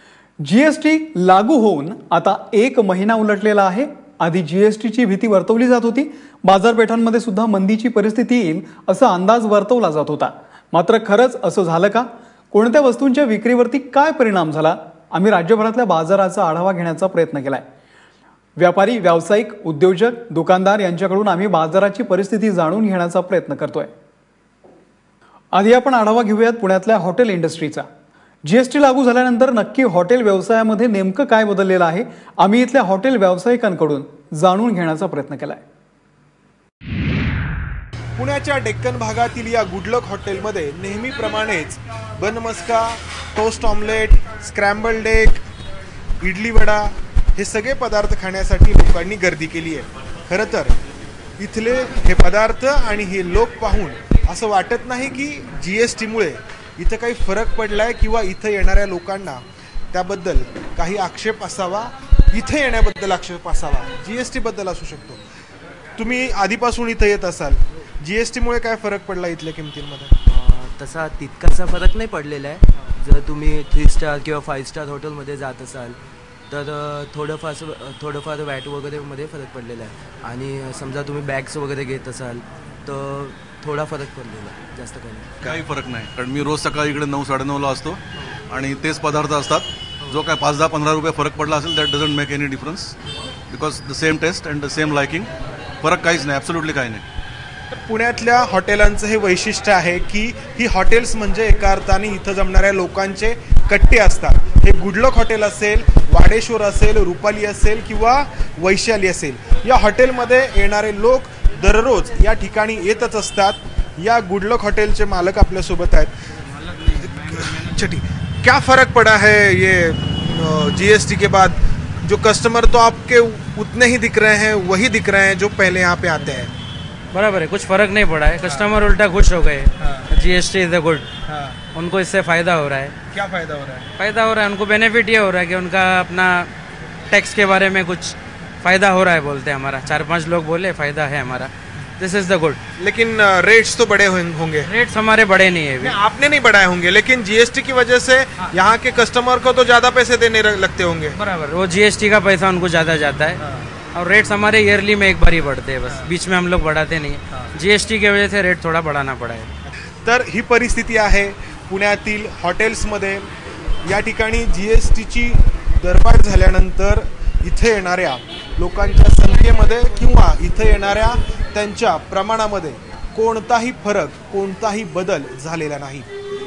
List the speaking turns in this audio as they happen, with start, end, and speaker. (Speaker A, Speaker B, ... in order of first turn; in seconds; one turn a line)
Speaker A: 0.4-17.6
Speaker A: 18.6-23.9
Speaker A: 25.5-27.9
Speaker A: 28.4-35.6
Speaker B: 38.2-45.4
Speaker B: 46.2-50.8
Speaker B: 51.4-65.2
Speaker B: 66.0-70.1
Speaker C: 70.2-85.4
Speaker D: 85.4-92.9
Speaker D: 93.5-95.3
Speaker D: 95.8-97.0
Speaker B: 97.7-116.1
Speaker B: 116.8-126.5
Speaker E: 127.1-131.1
Speaker B: 128.4-128.7
Speaker B: 129.8-130.1
Speaker B: 131.2-131.6
Speaker E: 131.7-132.9
Speaker B: 133.1-133.9
Speaker E: 134.0-136.5
Speaker E: 137.1-142.6
Speaker B: 142.8-144.7
Speaker E: 144.6-145.9
Speaker B: 145.8-151.2
Speaker E: 151.2-153.4
Speaker E: 153.9-159.5
Speaker B: 160.0-163.3
Speaker B: 163.8-176.1